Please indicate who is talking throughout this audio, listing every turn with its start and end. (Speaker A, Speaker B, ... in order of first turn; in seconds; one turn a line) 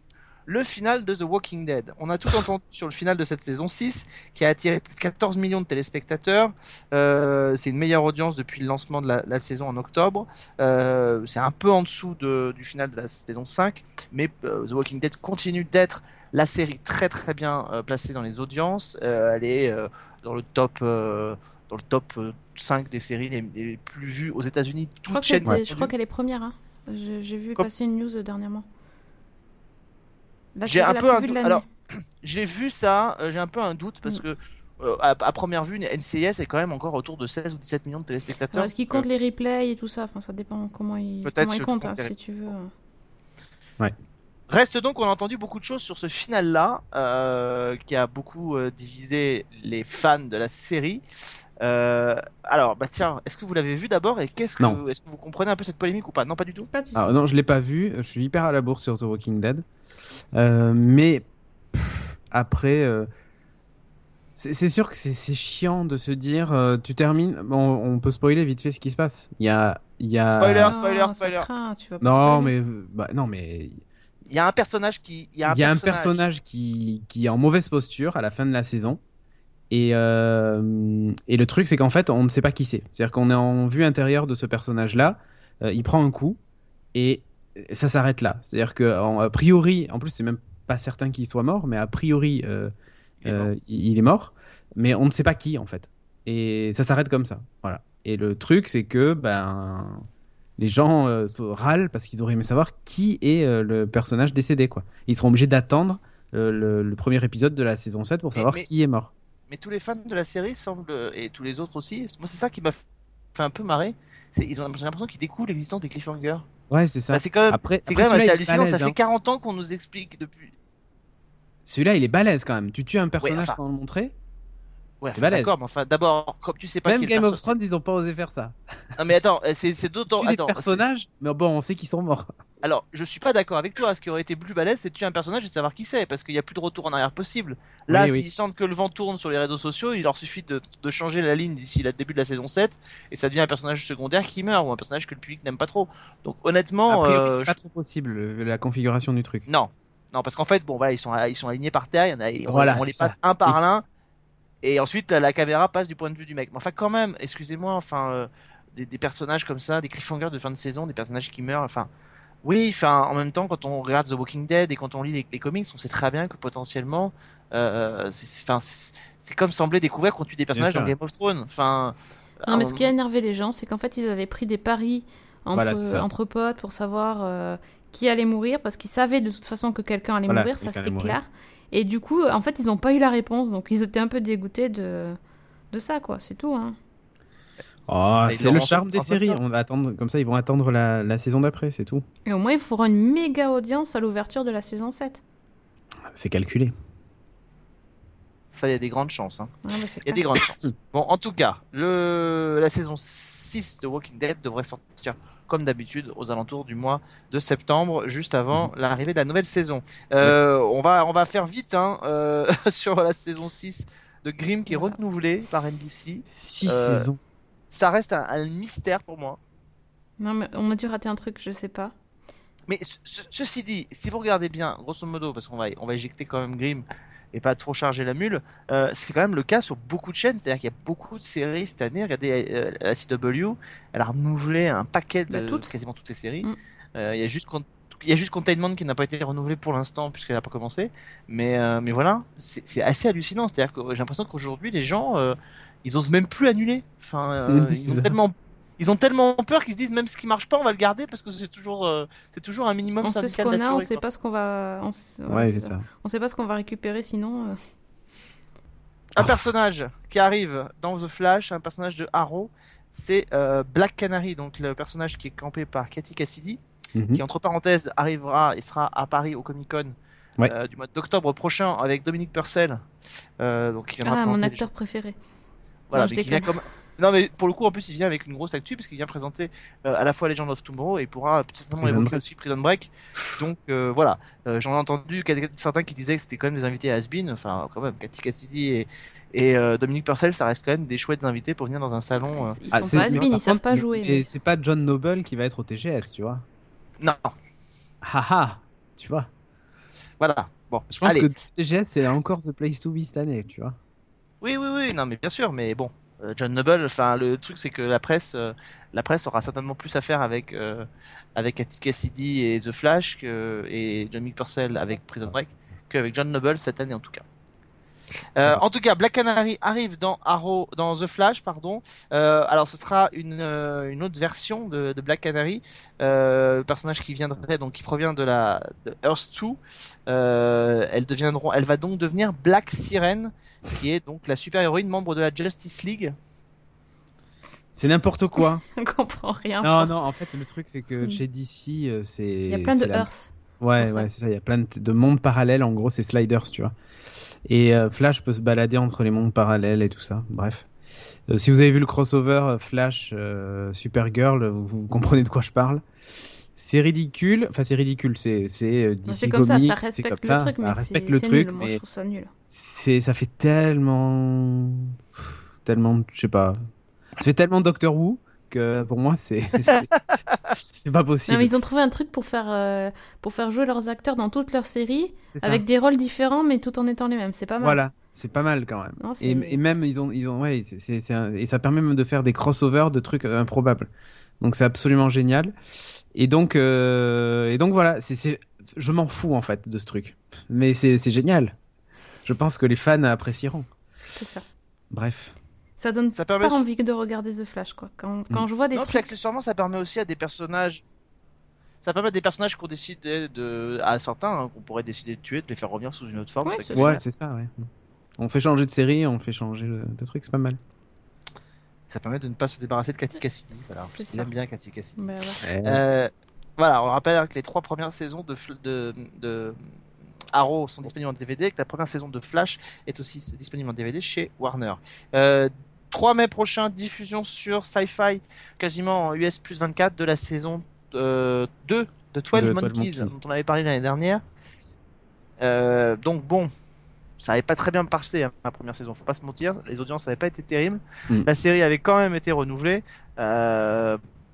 Speaker A: 0.5-25.9
Speaker B: 25.1-28.6
Speaker B: 30.6-31.6
Speaker A: 30.7-31.6
Speaker A: 32.2-39.0
Speaker B: 38.5-42.7
Speaker A: 41.2-42.1
Speaker A: 44.5-51.0
Speaker A: 51.6-56.7
Speaker B: 56.7-57.1
Speaker C: 57.0-59.6
Speaker C: 60.3-63.1
Speaker C: 64.4-70.7
Speaker A: 70.3-71.5
Speaker B: 70.7-72.5
Speaker C: 72.0-73.8
Speaker A: 74.3-76.2
Speaker C: 75.5-79.0
Speaker C: 79.7-86.4
Speaker C: 86.9-92.7
Speaker A: 93.2-93.5
Speaker C: 93.2-100.0
Speaker C: 100.6-109.1
Speaker A: 108.3-108.7
Speaker A: 109.5-112.8
Speaker A: 113.4-116.5
Speaker C: 116.7-119.0
Speaker A: 117.1-120.5
Speaker C: 121.6-124.1
Speaker A: 123.2-123.6
Speaker A: 125.0-127.5
Speaker C: 125.1-125.5
Speaker C: 126.9-128.6
Speaker A: 129.0-130.8
Speaker C: 130.2-132.3
Speaker A: 132.6-147.5
Speaker C: 137.9-138.2
Speaker C: 146.9-149.4
Speaker A: 149.5-153.8
Speaker C: 152.5-153.6
Speaker A: 154.6-161.9
Speaker A: 162.4-172.9
Speaker C: 170.5-170.9
Speaker B: 172.5-185.2
Speaker C: 175.5-176.1
Speaker C: 180.3-181.2
Speaker B: 185.7-186.8
Speaker C: 187.9-192.0
Speaker A: 188.3-189.4
Speaker B: 192.2-195.2
Speaker C: 196.1-196.7
Speaker A: 198.5-199.5
Speaker B: 199.6-200.2
Speaker A: 200.0-217.1
Speaker B: 214.7-215.0
Speaker C: 216.3-217.2
Speaker A: 217.7-219.4
Speaker B: 220.2-221.9
Speaker A: 222.7-254.0
Speaker B: 235.3-235.7
Speaker C: 247.5-248.2
Speaker B: 253.0-257.6
Speaker C: 255.3-255.8
Speaker A: 259.1-266.6
Speaker C: 259.2-259.5
Speaker C: 266.9-267.2
Speaker A: 267.1-272.8
Speaker A: 273.4-274.7
Speaker B: 274.0-275.2
Speaker A: 275.9-293.3
Speaker B: 275.9-276.5
Speaker C: 281.8-282.2
Speaker B: 292.2-294.2
Speaker C: 292.7-296.4
Speaker A: 297.0-297.3
Speaker C: 298.0-299.3
Speaker A: 300.2-301.3
Speaker C: 300.9-303.8
Speaker A: 304.4-317.2
Speaker A: 318.4-336.1
Speaker C: 337.8-338.6
Speaker B: 338.4-339.9
Speaker C: 339.6-343.1
Speaker B: 342.5-344.1
Speaker C: 343.6-346.7
Speaker C: 347.5-350.7
Speaker C: 351.3-355.8
Speaker C: 356.6-361.8
Speaker B: 359.1-362.3
Speaker C: 362.5-366.6
Speaker C: 367.2-369.9
Speaker C: 370.5-371.5
Speaker B: 371.3-377.8
Speaker C: 375.3-375.6
Speaker C: 377.6-383.9
Speaker B: 379.0-379.6
Speaker C: 384.4-385.5
Speaker C: 386.1-391.5
Speaker C: 392.2-393.7
Speaker B: 394.1-394.4
Speaker C: 394.9-395.3
Speaker B: 395.8-399.1
Speaker A: 396.1-396.6
Speaker A: 398.7-400.8
Speaker A: 401.8-407.0
Speaker B: 406.4-407.0
Speaker C: 406.7-410.6
Speaker A: 411.9-415.0
Speaker B: 413.7-414.3
Speaker B: 415.0-415.4
Speaker C: 415.4-415.8
Speaker A: 415.6-419.6
Speaker A: 420.3-434.2
Speaker C: 432.3-433.1
Speaker A: 435.4-436.5
Speaker A: 437.2-444.0